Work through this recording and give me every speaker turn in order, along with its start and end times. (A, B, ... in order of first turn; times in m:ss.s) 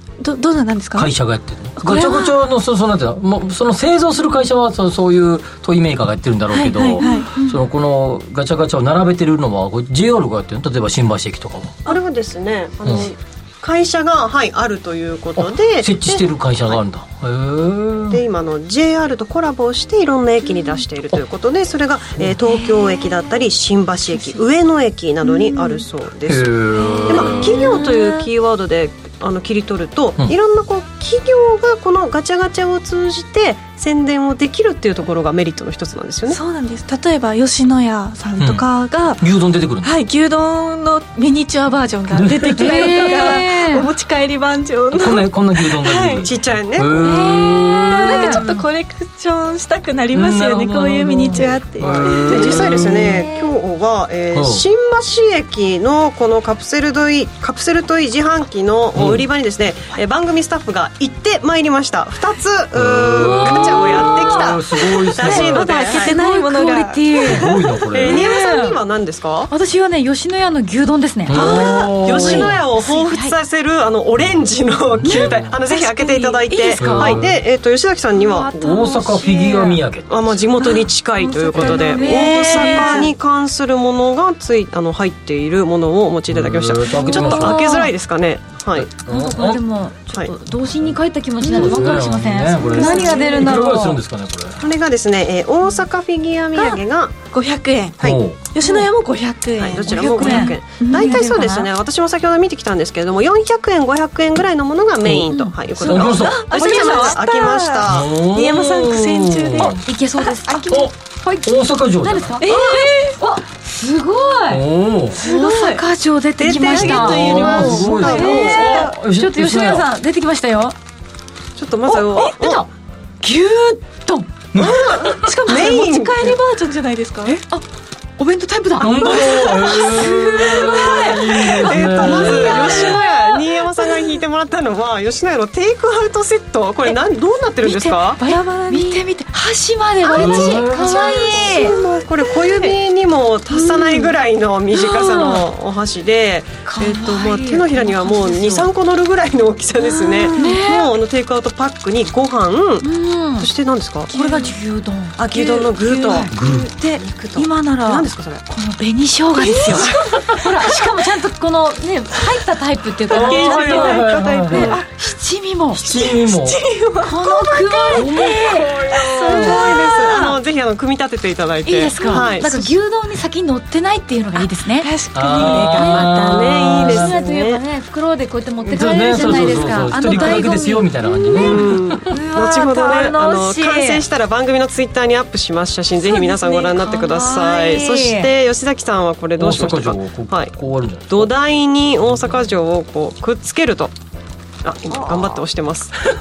0:00.2-0:01.1 A
0:01.0-0:11.9 B
0:01.8-0:02.3 A
0:06.5-0:07.3 A
0:07.0-0:07.6 C
0:11.8-0:16.2 D
0:12.8-0:13.1 B
0:15.4-0:18.2 B
0:18.1-0:36.4 D
0:26.2-0:27.8 B
0:26.8-0:28.0 A
0:26.9-0:28.2 C
0:36.3-0:39.2 A
0:38.4-0:38.6 B
0:39.2-0:39.9 B
0:39.8-0:46.3 A
0:42.1-0:43.4 B
0:42.5-0:43.9 C
0:44.9-0:48.4 B
0:46.2-0:47.0 D
0:46.9-0:52.8 A
0:48.0-0:48.6 C
0:50.1-0:53.2 B
0:51.8-1:06.1 D
0:53.0-0:53.5 C
0:54.3-0:54.6 B
0:58.9-0:59.3 B
1:02.7-1:05.6 B
1:03.2-1:04.3 C
1:05.2-1:07.6 A
1:05.8-1:08.8 C
1:07.2-1:08.2 B
1:07.9-1:09.5 D
1:09.5-1:13.3 C
1:11.2-1:12.6 B
1:11.3-1:18.6 D
1:15.0-1:15.5 B
1:15.0-1:17.1 C
1:15.7-1:17.1 A
1:16.8-1:17.4 B
1:18.1-1:19.8 C
1:18.5-1:20.4 B
1:20.1-1:28.9 D
1:20.6-1:23.1 C
1:21.5-1:22.0 B
1:21.5-1:23.1 A
1:26.3-1:27.8 B
1:26.9-1:27.9 C
1:28.7-1:29.6 B
1:29.0-1:34.0 C
1:30.8-1:34.6 B
1:32.7-1:33.6 D
1:32.8-1:33.6 A
1:34.6-1:37.1 D
1:36.5-1:36.8 A
1:37.3-1:41.3 A
1:38.0-1:38.4 B
1:39.6-1:48.1 D
1:39.8-1:41.7 C
1:45.7-1:50.7 A
1:45.8-1:46.4 B
1:47.9-1:49.8 B
1:49.6-2:00.7 C
1:50.7-1:52.4 B
1:52.4-1:53.2 A
1:52.5-1:52.9 D
1:54.5-1:55.2 B
1:55.2-1:55.8 A
1:56.4-1:58.7 D
1:56.4-1:58.9 A
1:56.7-1:59.9 B
2:01.6-2:02.6 D
2:01.9-2:02.6 C
2:03.2-2:04.3 C
2:04.5-2:05.1 B
2:04.6-2:06.4 D
2:05.0-2:07.4 A
2:08.2-2:13.1 C
2:08.8-2:13.0 B
2:09.0-2:13.1 A
2:11.1-2:18.2 D
2:17.6-2:21.8 C
2:18.2-2:19.0 A
2:20.1-2:34.1 D
2:20.1-2:21.1 B
2:21.1-2:22.8 A
2:23.6-2:24.0 C
2:23.6-2:24.1 A
2:24.7-2:25.4 C
2:26.6-2:28.7 C
2:29.8-2:30.5 A
2:30.3-2:30.9 C
2:32.8-2:33.5 C
2:34.1-2:45.9 C
2:34.1-2:34.5 A
2:35.2-2:36.3 D
2:36.3-2:36.7 B
2:36.9-2:38.4 D
2:39.4-2:40.2 A
2:43.1-2:44.8 A
2:43.1-2:44.8 B
2:44.4-2:44.8 D
2:45.7-2:46.6 B
2:45.8-2:50.4 A
2:47.0-2:49.7 C
2:47.9-2:48.4 B
2:48.0-2:52.7 D
2:51.6-2:54.9 C
2:54.8-2:56.2 A
2:55.1-2:57.2 B
2:55.5-2:56.1 C
2:55.6-2:57.6 D
2:56.8-3:04.0 C
2:58.7-3:02.0 B
3:00.1-3:00.4 D
3:01.4-3:10.5 D
3:06.0-3:08.3 C
3:09.4-3:11.3 B
3:11.1-3:13.9 D
3:14.6-3:16.1 D